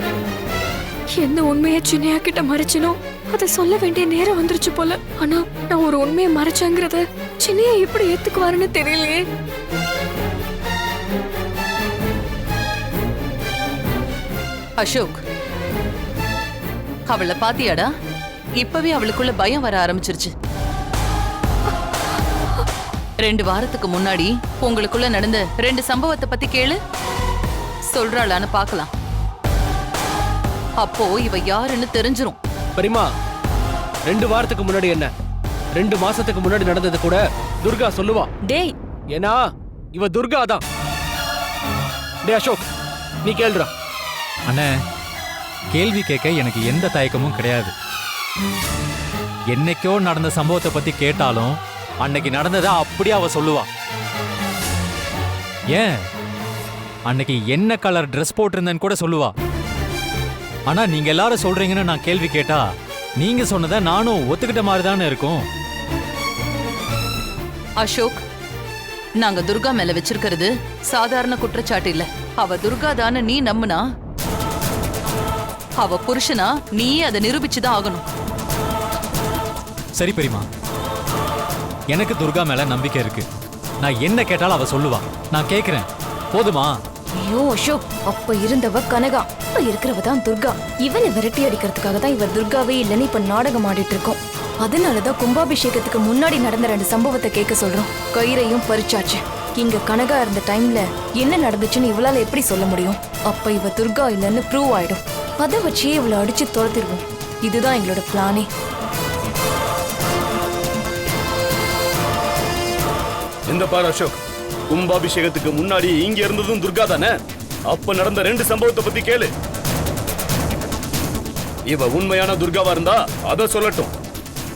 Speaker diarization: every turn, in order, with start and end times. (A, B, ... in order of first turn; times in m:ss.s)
0:01.2-0:09.2 A
0:14.8-0:15.2 B
0:17.1-0:17.9 B
0:18.6-0:20.3 B
0:23.2-0:26.8 B
0:27.9-0:28.9 B
0:30.8-0:32.4 B
0:32.8-0:33.1 C
0:34.1-0:35.1 C
0:35.8-0:38.3 C
0:39.1-0:40.6 C
0:42.2-0:42.7 C
0:43.2-0:43.7 C
0:45.7-0:47.7 D
0:49.5-0:53.7 D
0:55.7-0:56.0 D
0:57.1-0:59.3 D
1:00.7-1:05.4 D
1:07.8-1:08.2 B
1:09.2-1:13.8 B
1:15.8-1:18.0 B
1:20.0-1:20.5 D
1:21.9-1:23.2 D
1:23.8-1:26.7 D
1:27.2-1:48.5 E
1:53.5-1:54.2 F
1:54.7-1:57.1 F
1:57.7-1:59.3 F
2:01.7-2:03.9 F